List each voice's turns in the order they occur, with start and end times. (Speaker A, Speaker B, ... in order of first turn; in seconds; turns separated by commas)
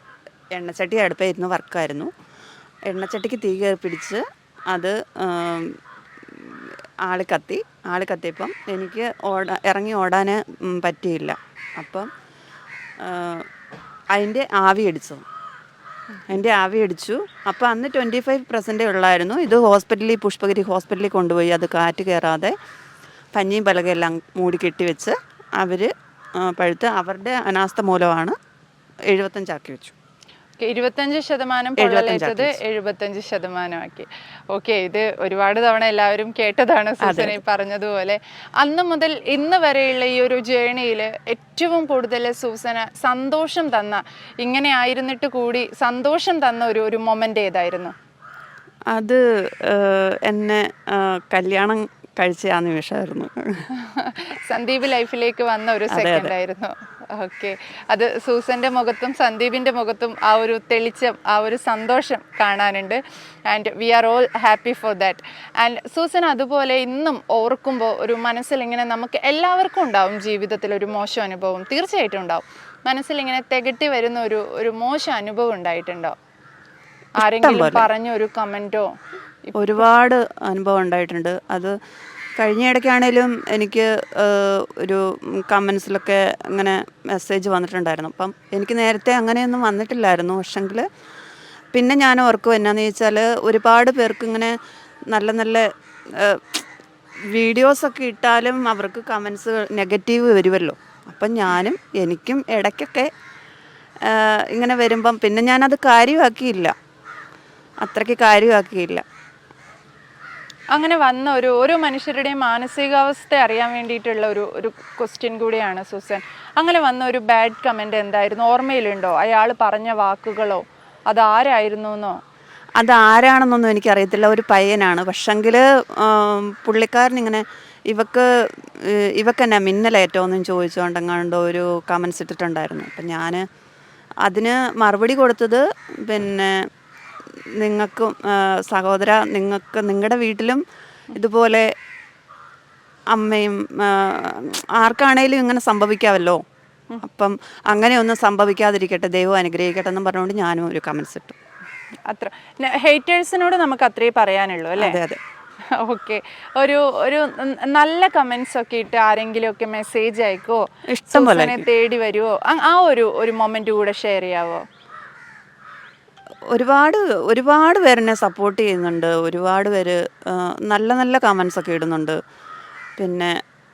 Speaker A: 0.5-2.1, Speaker A: 2.9-12.1, Speaker A: 13.0-13.5, Speaker A: 14.1-15.2, Speaker A: 16.3-22.5, Speaker A: 23.3-28.4, Speaker A: 29.1-29.9, Speaker B: 30.6-47.9, Speaker A: 31.8-32.6, Speaker A: 37.0-37.4, Speaker A: 48.9-53.7, Speaker B: 53.7-76.2, Speaker A: 55.9-56.3, Speaker B: 77.2-78.9, Speaker A: 77.2-77.9, Speaker B: 79.4-79.8, Speaker A: 79.5-81.8, Speaker A: 82.4-90.9, Speaker A: 91.7-94.5, Speaker A: 95.1-96.7, Speaker A: 97.2-103.1, Speaker A: 104.0-106.7, Speaker A: 107.8-109.0, Speaker B: 110.7-122.2, Speaker A: 122.8-133.4, Speaker A: 134.2-136.7, Speaker A: 137.6-141.7, Speaker A: 143.1-146.4, Speaker A: 147.0-151.4, Speaker B: 152.1-155.0, Speaker A: 154.8-155.2, Speaker B: 155.7-164.7, Speaker A: 160.9-161.7, Speaker A: 166.5-172.2, Speaker A: 173.0-173.4